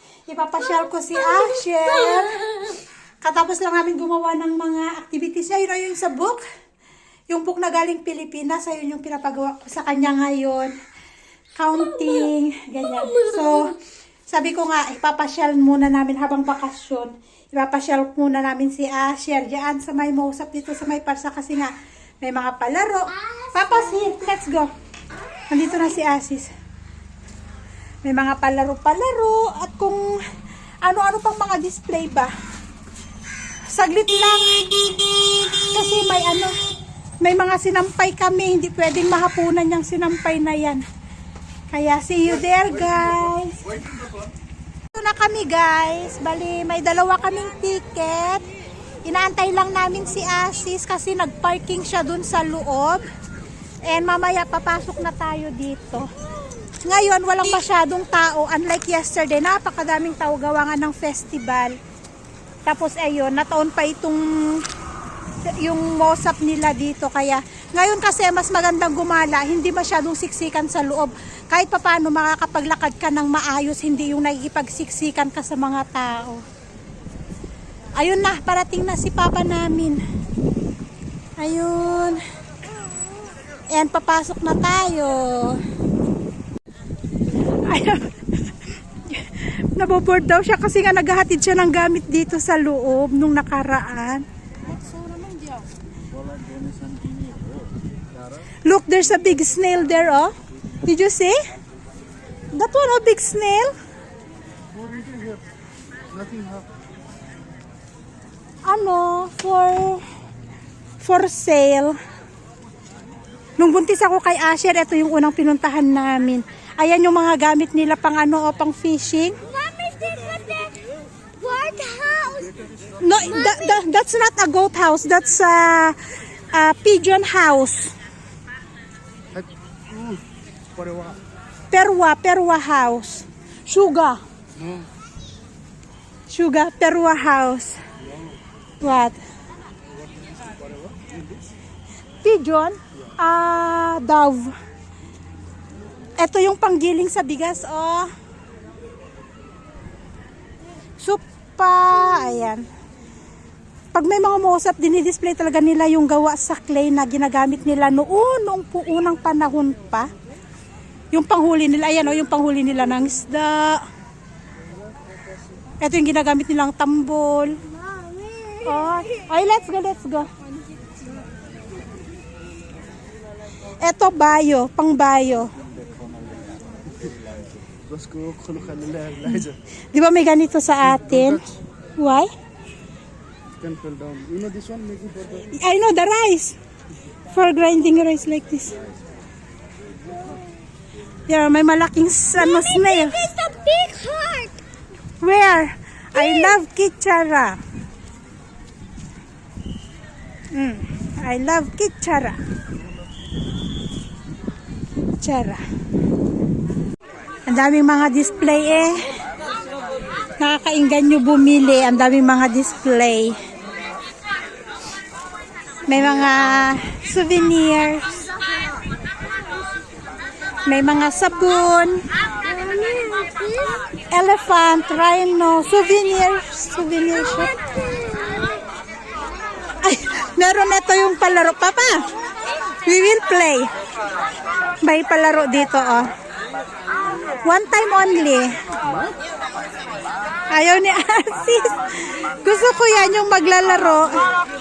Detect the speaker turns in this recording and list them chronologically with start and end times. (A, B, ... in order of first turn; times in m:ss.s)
0:00.3-0:02.4 A
0:03.2-0:06.4 A
0:07.3-0:10.7 A
0:11.6-0:13.8 A
0:12.9-0:13.7 B
0:14.3-0:24.7 A
0:25.5-0:26.5 A
0:28.0-0:30.0 A
0:30.8-0:32.3 A
0:33.7-0:34.7 A
0:35.6-0:36.5 A
0:37.2-0:40.8 A
0:41.7-0:43.7 A
0:44.9-0:48.4 A
0:49.0-0:53.0 A
0:53.9-0:56.1 A
0:56.8-1:01.8 A
1:02.7-1:04.7 A
1:05.5-1:16.4 A
1:18.0-1:20.0 A
1:21.4-1:22.2 A
1:23.7-1:25.6 A
1:27.5-1:28.2 A
1:29.1-1:34.2 A
1:34.9-1:35.4 B
1:36.2-1:37.6 C
1:38.7-1:40.3 A
1:40.8-1:41.4 A
1:42.5-1:43.7 A
1:44.8-1:45.4 C
1:46.2-1:46.6 C
1:48.6-1:50.0 A
1:51.0-1:52.0 A
1:53.6-1:59.4 A
1:59.5-2:00.8 B
2:01.4-2:02.6 B
2:03.0-2:06.0 A
2:03.2-2:03.8 B
2:06.5-2:07.9 A
2:10.8-2:11.1 C
2:11.7-2:14.2 A
2:16.3-2:17.8 A
2:18.8-2:19.2 A
2:22.2-2:24.5 A
2:26.2-2:28.1 A
2:31.0-2:32.7 A
2:33.9-2:40.1 A
2:41.1-2:43.8 A
2:45.8-2:47.6 A
2:47.8-2:49.0 B
2:48.6-2:50.3 A
2:53.8-2:55.5 A
2:56.1-2:56.6 C
2:57.9-2:59.2 C
2:59.2-3:01.5 A
3:02.0-3:02.3 A
3:03.6-3:05.4 C
3:05.5-3:06.6 A
3:07.3-3:08.8 A
3:11.3-3:13.2 A
3:12.4-3:14.6 B
3:15.2-3:17.6 A
3:16.2-3:16.6 B
3:20.5-3:22.4 A
3:25.2-3:25.6 A
3:27.5-3:29.1 A
3:30.4-3:33.4 A
3:35.9-3:38.2 A
3:40.6-3:42.0 A
3:42.4-3:43.8 B
3:44.1-3:47.6 A
3:47.6-3:48.7 B
3:49.8-3:52.0 A
3:52.8-3:53.7 A
3:54.8-3:56.1 A
3:57.4-3:58.6 A
4:00.5-4:04.3 A